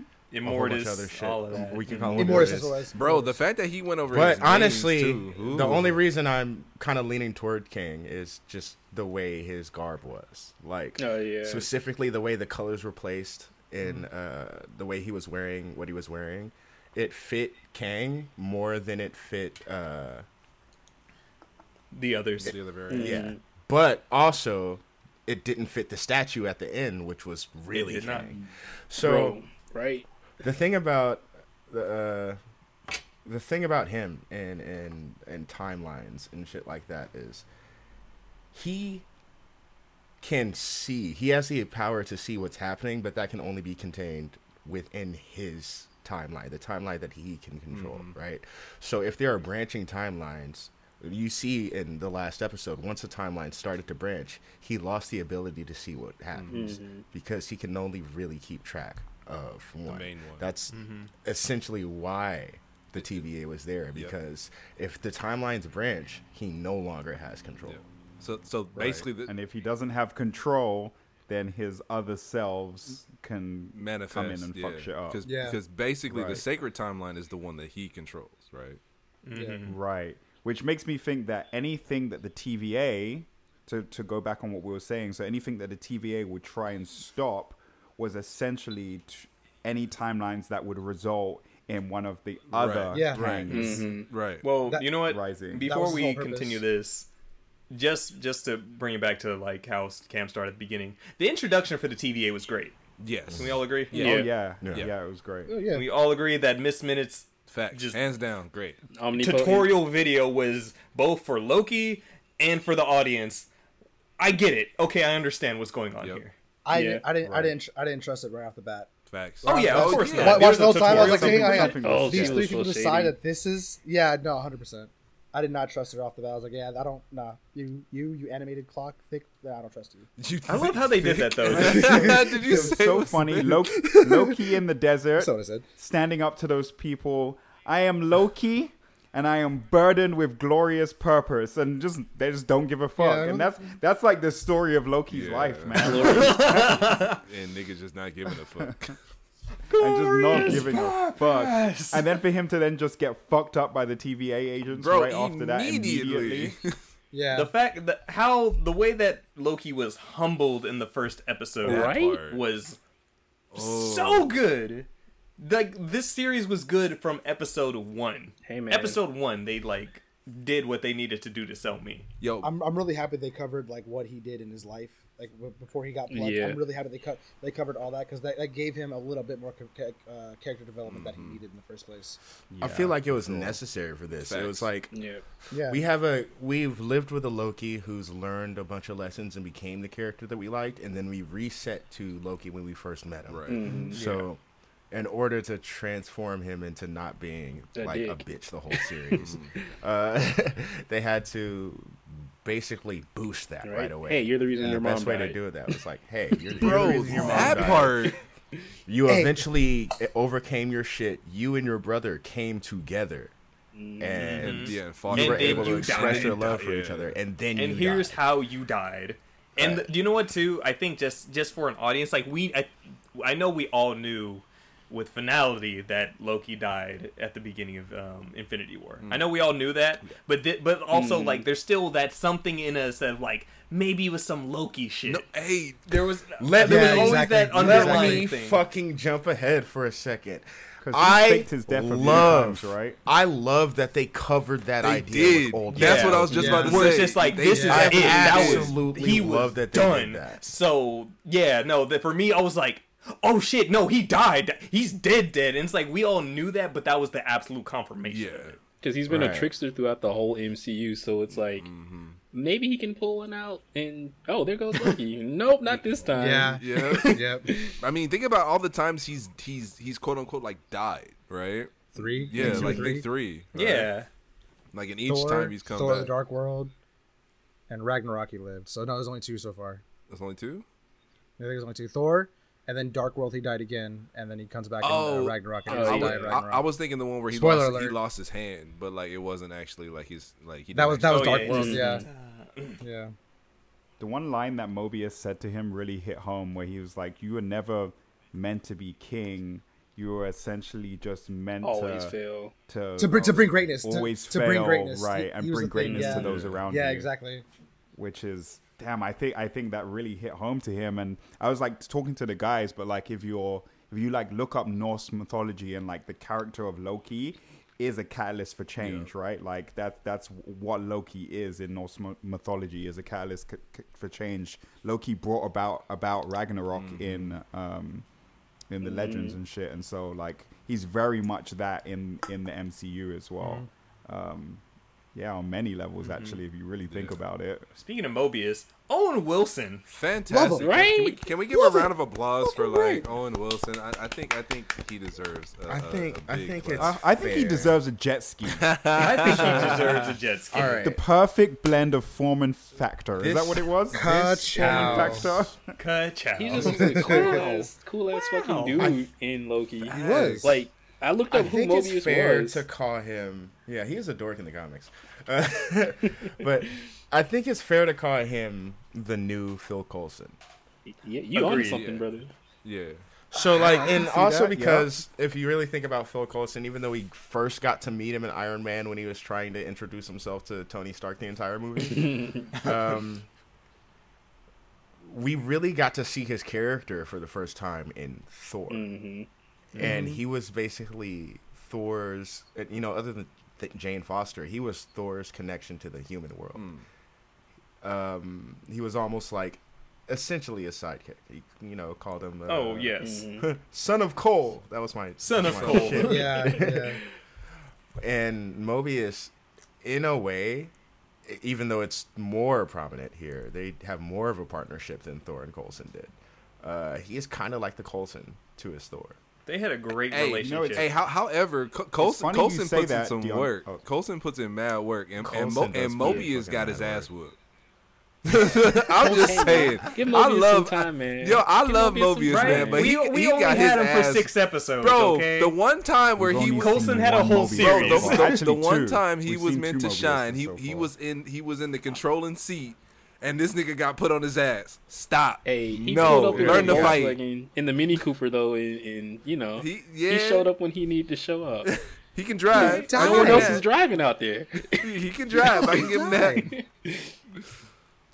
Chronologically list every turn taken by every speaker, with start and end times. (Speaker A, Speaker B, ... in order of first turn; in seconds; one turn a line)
Speaker A: 0.3-2.6
Speaker B: 0.4-2.8
Speaker C: 2.2-3.4
Speaker D: 2.9-6.0
Speaker B: 4.1-20.2
Speaker E: 11.0-11.7
Speaker A: 21.9-22.6
Speaker D: 22.4-23.3
Speaker B: 22.5-29.4
Speaker E: 22.9-23.4
Speaker A: 27.7-28.4
Speaker E: 29.0-30.1
Speaker B: 30.4-32.4
Speaker B: 33.2-37.5
Speaker B: 38.5-39.0
Speaker B: 40.2-67.8
Speaker D: 47.7-48.1
Speaker D: 56.3-56.6
Speaker E: 56.5-57.1
Speaker D: 59.9-60.5
Speaker A: 60.7-61.1
Speaker D: 63.0-63.3
Speaker D: 67.7-69.4
Speaker F: 69.2-75.2
Speaker D: 73.7-78.8
Speaker C: 75.2-75.6
Speaker F: 76.1-76.4
Speaker A: 79.2-79.8
Speaker F: 79.6-93.9
Speaker D: 92.5-94.4
Speaker C: 92.9-93.8
Speaker E: 93.5-94.1
Speaker A: 94.4-97.1
Speaker C: 94.6-95.0
Speaker F: 95.0-95.7
Speaker C: 95.6-96.6
Speaker A: 97.7-102.8
Speaker D: 103.0-104.9
Speaker A: 103.3-104.3
Speaker E: 103.9-104.3
Speaker F: 103.9-105.5
Speaker B: 104.6-104.9
Speaker C: 105.5-105.9
Speaker A: 105.7-108.0
Speaker D: 107.5-108.8
Speaker E: 108.9-109.8
Speaker A: 109.2-113.5
Speaker A: 114.2-116.3
Speaker C: 116.7-118.9
Speaker E: 116.7-117.2
Speaker D: 117.2-117.6
Speaker D: 119.1-120.6
Speaker C: 119.4-130.1
Speaker A: 119.5-121.7
Speaker F: 119.7-122.6
Speaker E: 121.6-123.2
Speaker D: 130.2-133.6
Speaker A: 130.4-132.0
Speaker F: 131.6-146.8
Speaker C: 132.1-132.7
Speaker C: 133.5-134.4
Speaker C: 135.2-135.7
Speaker C: 143.0-143.5
Speaker D: 145.1-149.0
Speaker E: 145.8-146.6
Speaker A: 145.8-147.2
Speaker A: 149.7-152.1
Speaker F: 149.7-156.6
Speaker D: 154.7-156.8
Speaker C: 157.1-157.5
Speaker A: 157.3-162.8
Speaker E: 161.6-162.2
Speaker D: 161.7-162.4
Speaker D: 163.5-164.4
Speaker A: 163.6-164.9
Speaker A: 165.4-172.1
Speaker E: 168.4-169.0
Speaker D: 172.2-172.5
Speaker C: 172.4-182.2
Speaker E: 176.1-176.6
Speaker D: 180.8-181.4
Speaker F: 182.5-183.0
Speaker B: 182.6-184.9
Speaker D: 183.2-183.6
Speaker D: 184.3-184.7
Speaker E: 184.9-185.2
Speaker C: 185.5-185.8
Speaker B: 185.7-194.4
Speaker D: 193.3-193.8
Speaker E: 193.5-194.1
Speaker A: 193.9-194.3
Speaker B: 194.9-208.1
Speaker E: 197.8-199.6
Speaker D: 199.1-199.5
Speaker E: 203.6-205.8
Speaker E: 206.4-207.3
Speaker D: 206.6-208.2
Speaker C: 206.9-207.4
Speaker A: 207.2-207.5
Speaker B: 208.9-213.3
Speaker C: 209.1-209.4
Speaker E: 213.7-214.5
Speaker B: 214.0-218.2
Speaker A: 214.2-216.4
Speaker D: 214.4-217.2
Speaker A: 217.6-235.2
Speaker B: 219.6-219.9
Speaker D: 229.0-229.3
Speaker E: 230.9-231.5
Speaker D: 235.1-236.2
Speaker A: 235.9-238.6
Speaker B: 236.4-246.5
Speaker C: 236.6-238.3
Speaker F: 240.8-243.0
Speaker D: 244.8-248.8
Speaker A: 245.7-258.6
Speaker E: 246.3-246.9
Speaker C: 246.3-247.9
Speaker B: 247.7-250.5
Speaker D: 258.1-258.6
Speaker E: 258.8-261.7
Speaker B: 259.1-259.5
Speaker D: 261.3-262.2
Speaker E: 262.3-267.8
Speaker C: 266.1-267.5
Speaker D: 266.6-267.3
Speaker D: 267.8-273.9
Speaker C: 271.9-273.1
Speaker E: 272.4-272.8
Speaker A: 273.5-274.1
Speaker D: 274.7-276.1
Speaker C: 275.1-276.7
Speaker C: 277.7-279.8
Speaker D: 280.1-280.6
Speaker C: 281.4-286.7
Speaker D: 284.8-291.8
Speaker E: 285.6-286.4
Speaker C: 287.3-288.0
Speaker C: 290.7-292.1
Speaker A: 291.1-292.8
Speaker E: 291.4-292.1
Speaker C: 292.8-293.1
Speaker F: 294.0-302.2
Speaker E: 301.6-302.5
Speaker F: 302.7-307.1
Speaker C: 303.0-307.4
Speaker E: 305.8-306.3
Speaker D: 306.1-306.6
Speaker F: 307.9-328.1
Speaker D: 318.8-319.1
Speaker D: 326.7-327.4
Speaker F: 328.7-334.6
Speaker E: 328.8-329.4
Speaker C: 333.4-333.7
Speaker F: 335.1-337.7
Speaker A: 336.0-336.4
Speaker D: 336.9-337.2
Speaker A: 337.8-339.9
Speaker D: 339.9-347.0
Speaker C: 340.3-340.8
Speaker E: 340.6-341.3
Speaker C: 341.5-341.9
Speaker C: 342.4-343.0
Speaker B: 345.7-347.8
Speaker F: 346.8-348.8
Speaker D: 348.5-349.9
Speaker A: 348.9-350.8
Speaker B: 350.5-351.0
Speaker F: 350.8-355.7
Speaker B: 353.2-355.3
Speaker C: 353.9-355.3
Speaker A: 355.8-358.9
Speaker E: 356.4-362.7
Speaker C: 356.6-357.5
Speaker B: 358.8-359.0
Speaker C: 359.9-360.6
Speaker D: 360.0-360.5
Speaker B: 361.3-370.4
Speaker E: 370.9-372.3
Speaker A: 371.3-371.8
Speaker D: 371.6-372.1
Speaker D: 372.6-373.0
Speaker B: 373.3-383.3
Speaker C: 373.5-374.0
Speaker F: 373.9-374.9
Speaker E: 381.9-382.6
Speaker B: 385.0-388.9
Speaker E: 388.7-389.3
Speaker B: 389.8-396.7
Speaker D: 396.6-396.9
Speaker B: 397.8-406.9
Speaker A: 402.5-403.2
Speaker E: 403.0-403.5
Speaker A: 405.2-406.4
Speaker D: 405.4-405.9
Speaker C: 406.0-407.0
Speaker B: 408.0-410.7
Speaker B: 411.2-419.2
Speaker A: 419.5-420.9
Speaker D: 420.1-427.4
Speaker F: 420.4-420.9
Speaker F: 422.0-423.8
Speaker B: 425.2-427.1
Speaker D: 428.3-447.2
Speaker C: 429.0-429.8
Speaker E: 429.0-432.9
Speaker A: 432.2-435.6
Speaker F: 436.2-440.9
Speaker A: 436.5-438.4
Speaker E: 445.4-451.7
Speaker A: 445.9-447.0
Speaker D: 449.6-450.5
Speaker D: 451.6-453.7
Speaker E: 452.5-455.9
Speaker C: 452.5-453.7
Speaker D: 454.7-456.5
Speaker C: 455.7-456.5
Speaker E: 456.5-457.1